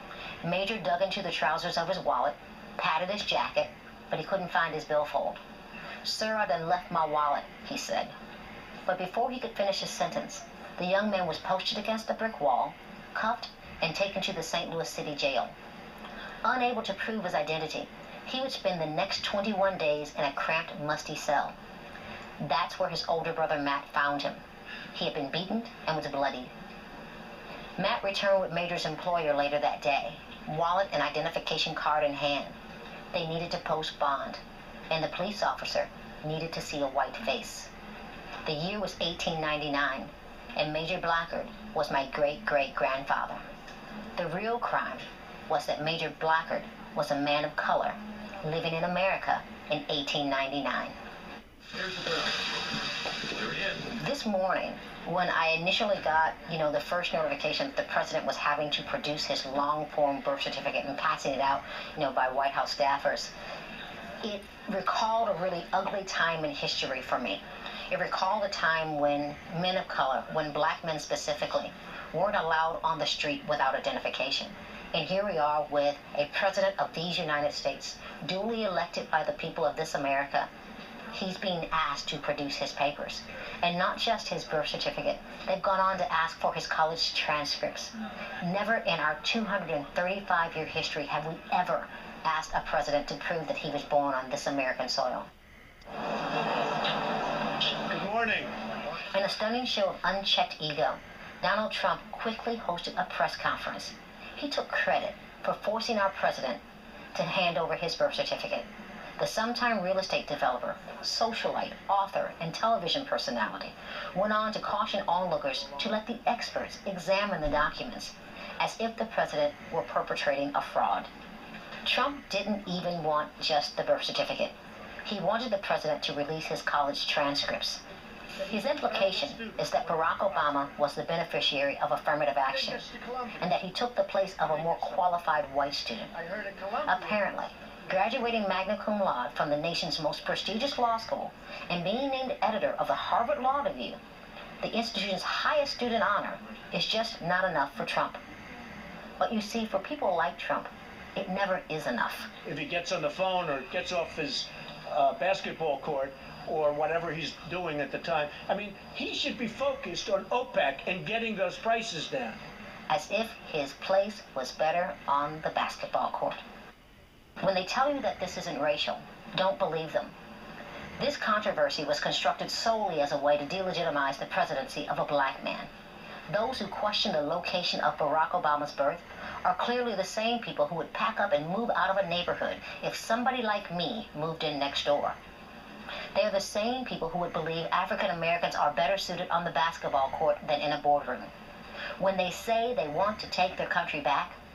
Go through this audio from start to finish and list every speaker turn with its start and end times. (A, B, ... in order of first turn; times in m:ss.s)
0:00.4-0:05.4 A
0:06.0-0:08.1 A
0:08.9-0:15.5 A
0:16.4-0:21.6 A
0:22.4-0:24.4 A
0:24.9-0:26.5 A
0:27.8-0:32.6 A
0:33.1-0:37.7 A
0:38.5-0:43.4 A
0:44.2-0:51.0 A
0:53.8-1:03.3 A
1:04.2-1:20.5 A
1:21.1-1:35.3 A
1:37.9-1:38.5 B
1:39.1-1:46.6 A
1:47.2-1:48.7 A
1:49.2-2:01.1 A
2:01.8-2:04.5 A
2:05.1-2:07.8 A
2:08.4-2:10.5 B
2:08.5-2:12.8 A
2:12.5-2:13.5 B
2:13.4-2:16.1 A
2:14.4-2:15.0 B
2:16.1-2:17.2 B
2:16.9-2:24.0 A
2:24.6-2:28.2 A
2:29.2-2:32.3 A
2:32.4-2:42.4 B
2:42.9-2:46.4 A
2:47.4-2:50.1 A
2:51.0-2:55.7 A
2:56.3-3:05.2 A
3:06.2-3:11.3 A
3:12.0-3:14.4 A